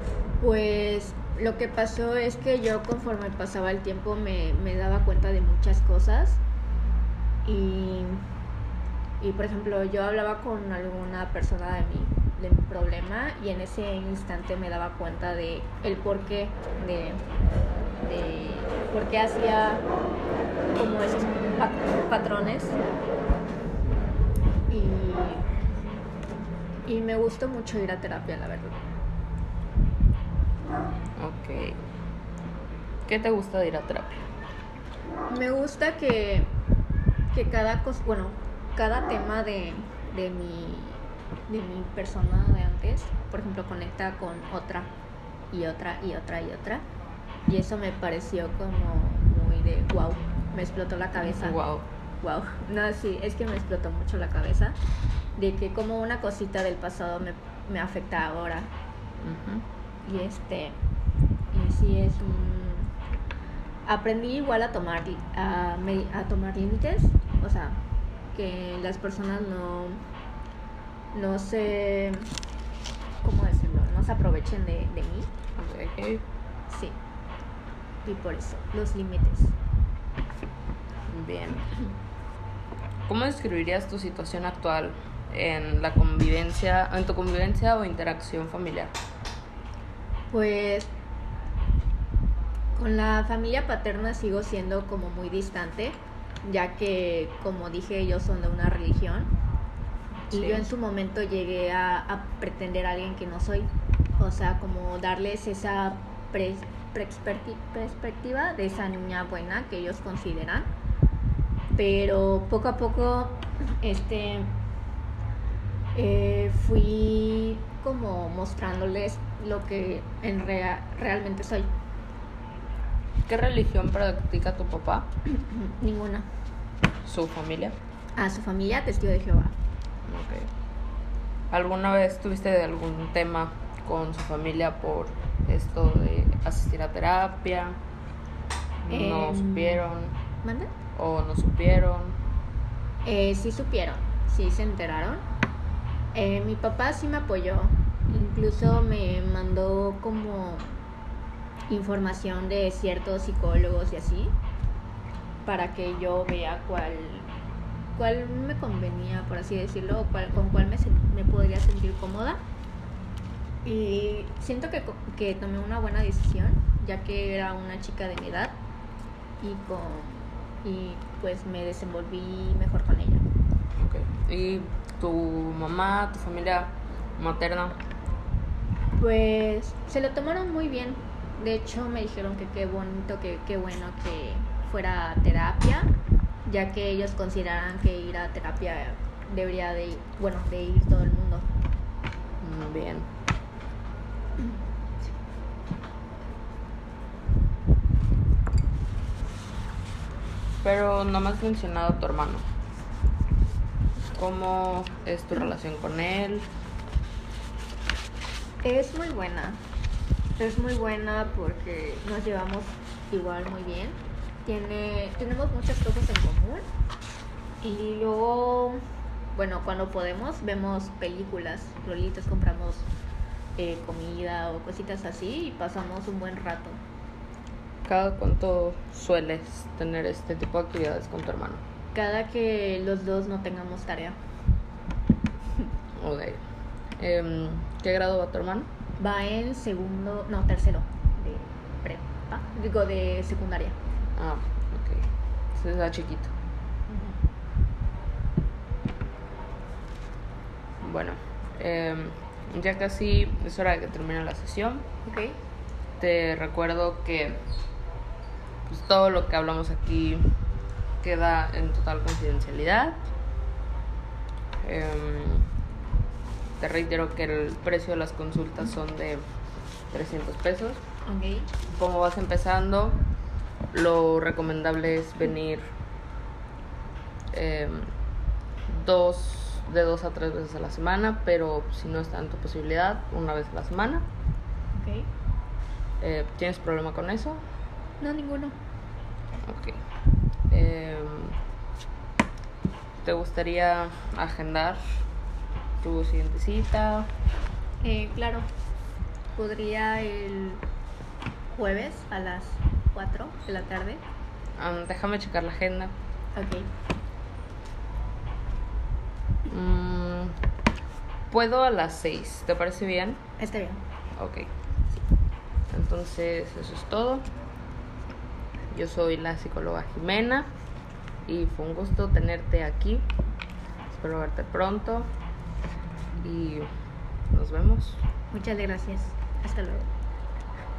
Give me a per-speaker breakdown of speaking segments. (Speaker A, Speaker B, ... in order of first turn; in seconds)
Speaker A: 0.4-6.4, 7.4-8.3, 9.2-17.2, 18.0-19.9, 20.7-22.8, 24.7-25.5, 26.9-28.8, 35.3-36.6, 37.3-44.9, 45.5-46.9, 47.5-51.6, 52.2-54.8, 55.4-58.7, 60.0-60.8, 61.5-62.9, 63.9-70.0, 71.1-72.3, 73.2-75.3, 76.7-77.0, 78.0-79.5, 90.3-90.9, 92.8-99.3, 100.3-110.7, 111.7-114.5, 115.9-121.7, 125.2-126.3, 128.2-129.6, 138.9-139.8, 140.4-140.7, 143.0-145.2, 146.1-150.8, 151.7-154.4, 155.4-157.3, 157.9-162.4, 163.6-168.6, 169.4-173.2, 179.0-185.9, 186.4-191.5, 208.6-209.6, 210.4-216.7, 217.6-218.8, 219.3-222.9, 223.6-226.8, 231.9-234.2, 239.0-243.8, 246.9-247.2, 255.1-255.4, 271.0-271.5, 284.7-285.1, 288.0-288.6, 297.8-298.5, 299.4-300.6, 301.5-304.0, 306.3-306.7, 313.4-313.8, 328.3-329.9
Speaker B: 31.2-31.8, 33.0-34.2, 51.2-51.9, 59.2-59.7, 75.5-76.2, 81.1-81.8, 83.0-88.9, 100.3-100.7, 123.3-125.1, 127.0-127.8, 130.1-130.5, 131.5-137.8, 138.8-140.2, 140.9-142.2, 173.8-177.8, 192.4-193.1, 200.6-202.4, 204.1-206.5, 227.8-231.6, 235.9-236.4, 237.0-238.7, 244.2-246.3, 250.8-254.9, 256.0-257.4, 258.7-260.4, 261.0-263.1, 264.6-265.5, 266.6-269.2, 269.9-270.8, 271.7-273.0, 273.7-275.7, 277.3-277.9, 278.7-284.1, 286.0-287.4, 289.4-289.8, 290.5-291.4, 293.0-295.0, 295.8-297.1, 304.6-305.9, 309.5-310.4, 311.3-313.2, 314.1-314.5, 315.7-317.3, 318.7-320.5, 321.2-323.1, 323.9-325.1, 326.2-326.7, 327.3-328.0